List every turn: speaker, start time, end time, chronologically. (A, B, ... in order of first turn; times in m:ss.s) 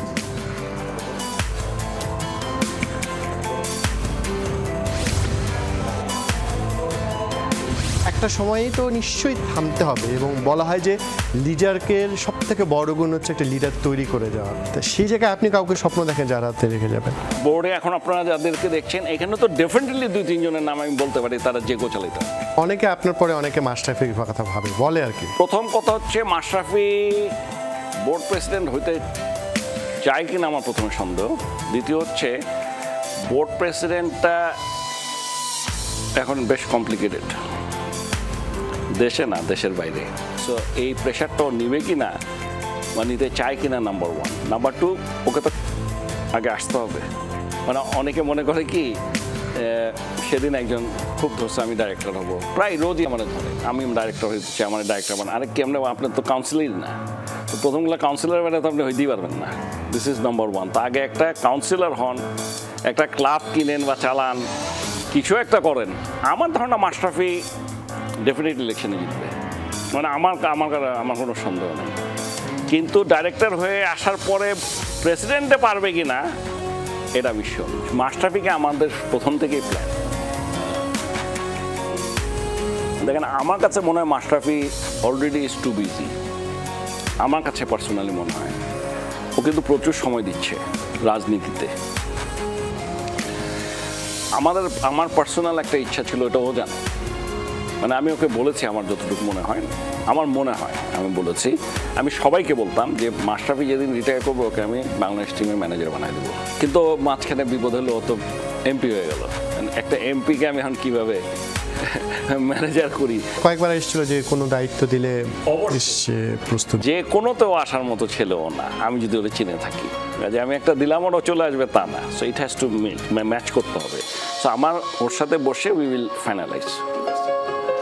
0:08.1-0:17.2 A
0:17.4-0:22.3 B
0:22.6-0:25.4 A
0:25.4-0:27.4 B
0:28.0-0:29.0 B
0:30.0-0:32.4 B
0:33.3-0:34.5 B
0:36.2-0:37.4 B
0:39.0-0:42.2 B
0:43.0-0:45.5 B
0:46.3-0:47.1 B
0:47.7-0:49.0 B
0:49.5-0:57.0 B
0:57.5-1:02.2 B
1:02.9-1:04.4 B
1:05.1-1:07.4 B
1:08.2-1:09.4 B
1:09.9-1:12.0 B
1:12.7-1:16.2 B
1:17.2-1:20.0 B
1:23.0-1:26.1 B
1:27.2-1:28.6 B
1:29.4-1:31.7 B
1:34.4-1:36.8 B
1:37.8-1:51.2 B
1:51.8-1:53.2 B
1:53.4-1:56.8 A
1:55.5-1:56.0 B
1:56.8-2:07.0 B